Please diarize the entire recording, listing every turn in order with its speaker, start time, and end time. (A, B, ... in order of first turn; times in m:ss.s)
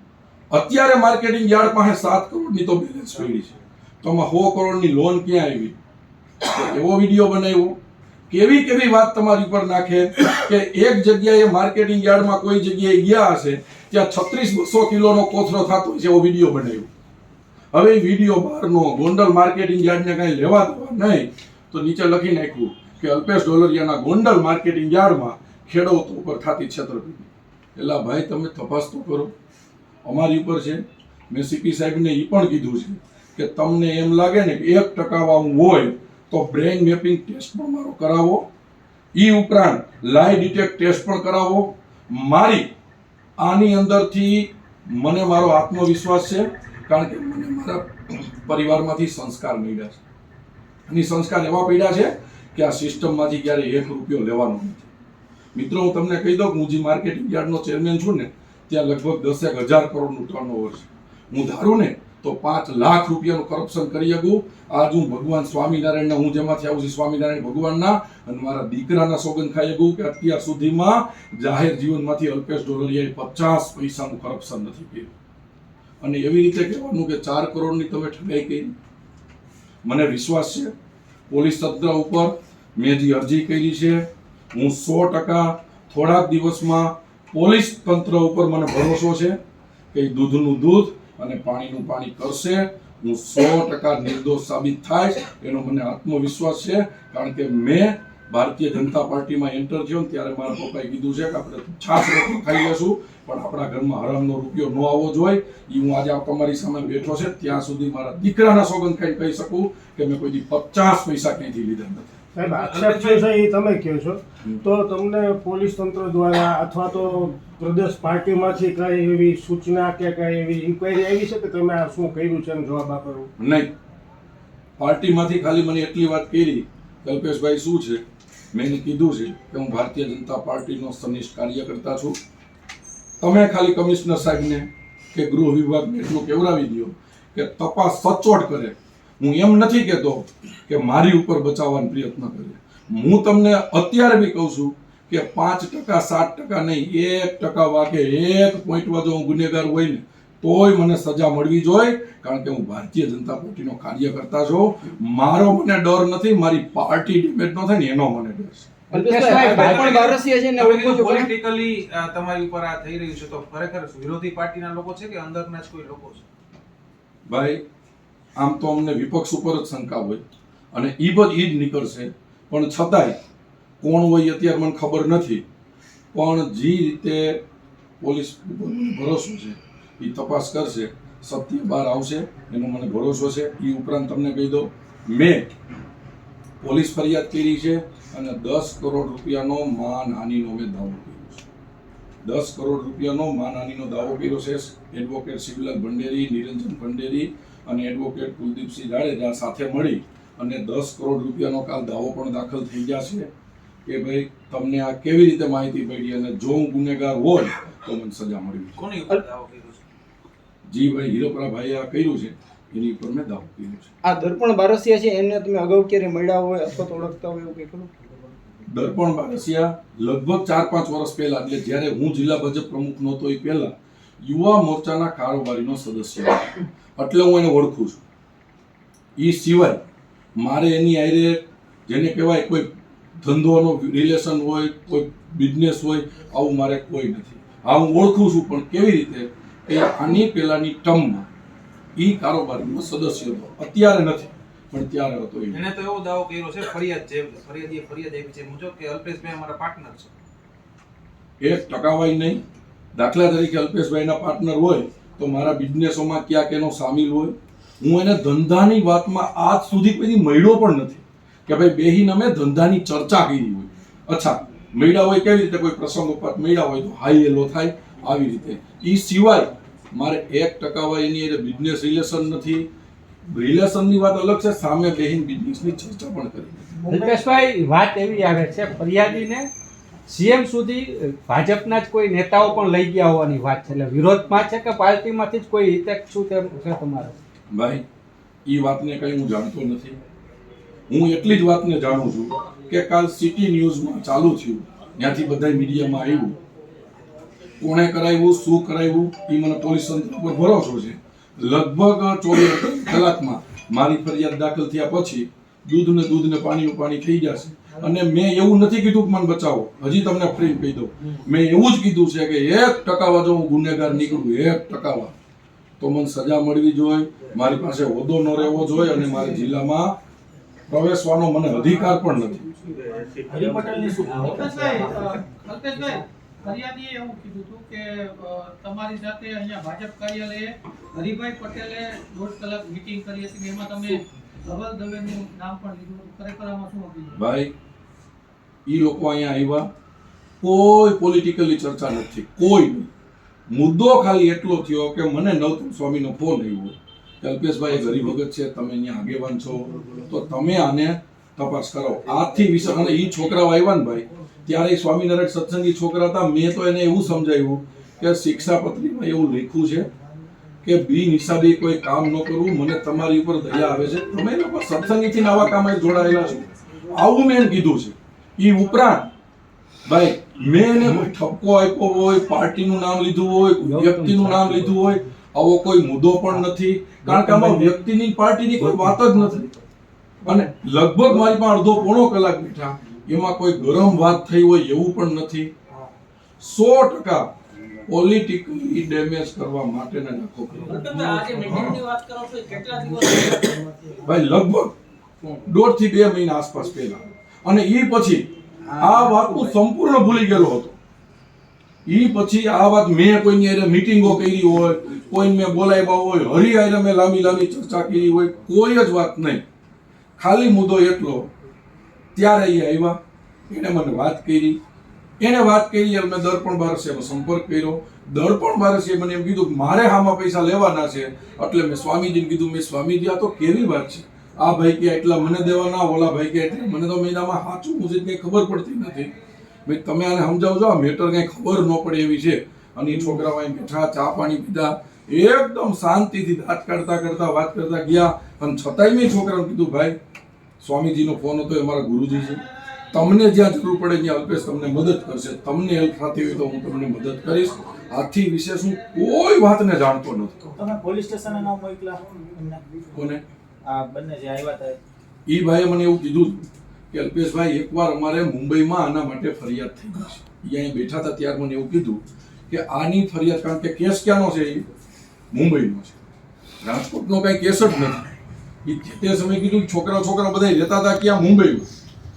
0:00.5-0:05.8 A
0:06.4-0:07.8 A
0:08.3-0:16.9 A
0:17.7-0:29.3 A
0:30.0-0:38.5 A
0:39.2-0:42.7 A
0:43.4-0:50.0 A
0:50.9-0:54.9 A
0:55.6-1:15.1 A
1:16.0-1:18.7 A
1:19.9-1:20.7 A
1:21.3-1:29.4 A
1:29.9-1:52.2 A
1:52.4-2:03.3 B
1:52.4-1:53.3 C
2:03.4-2:03.7 A
2:04.8-2:12.2 A
2:13.2-2:38.7 A
2:38.9-2:41.3 D
2:39.0-2:40.2 E
2:39.2-2:46.3 C
2:47.3-2:47.6 A
2:48.4-2:53.2 A
2:53.8-2:55.4 A
2:56.1-2:57.4 A
2:58.0-3:05.5 A
3:06.6-3:11.5 A
3:12.2-3:23.3 A
3:23.9-3:28.8 A
3:28.8-3:29.8 C
3:30.7-3:33.9 A
3:34.0-3:37.9 D
3:38.7-3:48.0 A
3:49.2-3:49.8 A
3:50.4-4:01.3 A
4:02.0-4:05.6 A
4:05.5-4:10.1 C
4:11.4-4:12.4 A
4:13.0-4:32.7 A
4:33.3-4:36.7 A
4:36.9-4:39.5 E
4:40.1-4:47.1 E
4:47.5-4:47.8 A
4:48.5-4:50.0 A
4:50.9-4:56.4 A
4:57.6-5:15.2 A
5:15.8-5:19.9 A
5:20.7-5:22.4 A
5:22.5-5:24.3 C
5:23.3-5:25.2 F
5:24.2-5:37.2 G
5:37.2-5:37.5 A
5:38.7-5:39.7 A
5:40.4-5:42.9 A
5:43.5-5:59.9 A
6:00.6-6:09.1 A
6:09.9-6:19.5 A
6:13.6-6:15.1 E
6:17.0-6:17.8 E
6:18.6-6:19.4 E
6:20.3-6:25.5 A
6:26.4-6:27.2 A
6:27.9-6:31.8 A
6:34.0-6:34.8 A
6:35.4-6:38.3 A
6:38.8-6:40.8 A
6:41.9-6:49.4 A
6:50.2-6:51.3 A
6:52.2-6:53.0 A
6:53.5-6:54.6 A
6:55.2-7:09.1 A
7:09.6-7:20.0 A
7:20.6-7:30.5 A
7:30.6-7:32.6 F
7:32.9-7:33.2 A
7:33.6-7:34.8 F
7:35.3-7:44.7 A
7:45.3-7:46.0 A
7:46.6-7:48.1 A
7:48.6-7:51.7 A